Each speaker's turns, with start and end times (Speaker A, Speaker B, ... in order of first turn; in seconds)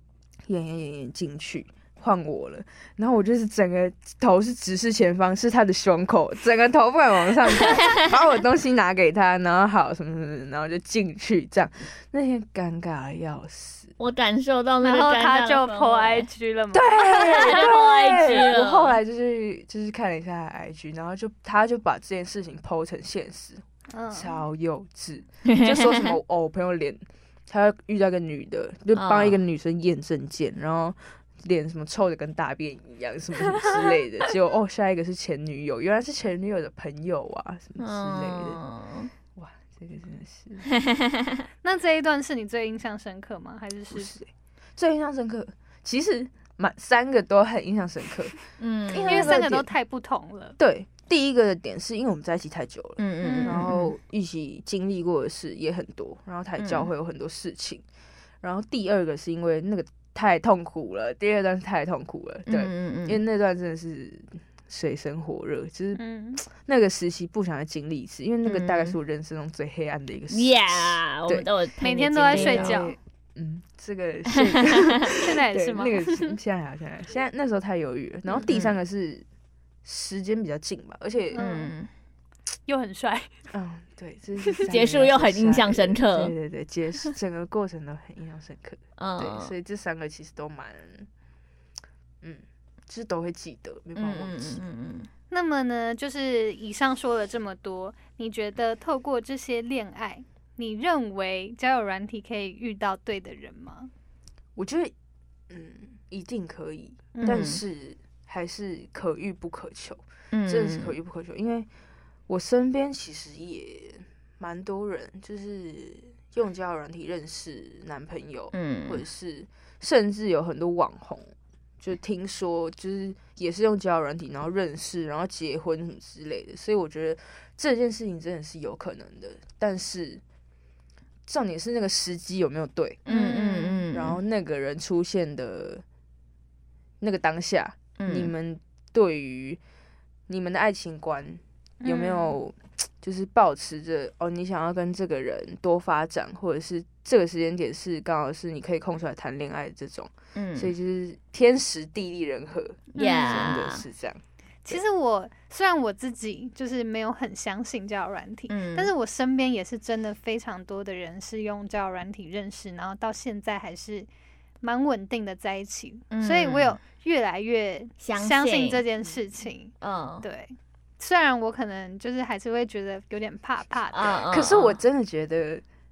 Speaker A: 0.5-13.9, 16.7-38.6, 39.4-40.7, 43.9-48.4, 48.9-49.7, 50.6-57.8, 58.4-71.5, 72.2-79.2, 79.8-81.4, 83.5-91.1, 92.2-94.6, 104.6-104.9, 105.5-111.7, 112.3-121.3, 121.8-130.2, 131.2-133.0, 133.9-135.8, 137.0-139.6, 140.3-154.8, 174.2-175.6
Speaker B: 14.0-16.3, 17.1-19.0, 25.4-26.1, 28.9-29.4, 37.8-39.1, 40.7-41.3, 48.6-49.4, 53.0-53.9, 56.6-56.9, 62.5-63.2, 68.4-69.0, 70.3-72.9, 74.5-75.0, 78.3-78.7, 81.3-81.9, 84.7-86.3, 89.0-89.5, 94.0-95.1, 107.2-107.6, 110.3-111.0, 118.5-119.0, 133.1-134.2, 138.0-138.3, 150.3-150.7, 152.9-153.8, 158.5-158.9, 166.1-166.8, 168.0-168.8, 169.8-170.2, 173.9-174.8
Speaker C: 14.8-17.7, 23.9-24.4, 41.6-44.1, 49.0-50.6, 53.2-53.6, 66.0-66.4, 71.8-73.0, 75.2-76.4, 81.3-81.7, 82.7-83.3, 95.3-103.9, 107.1-107.4, 133.1-133.8, 141.8-142.4, 153.0-153.5, 154.6-164.1, 164.6-174.2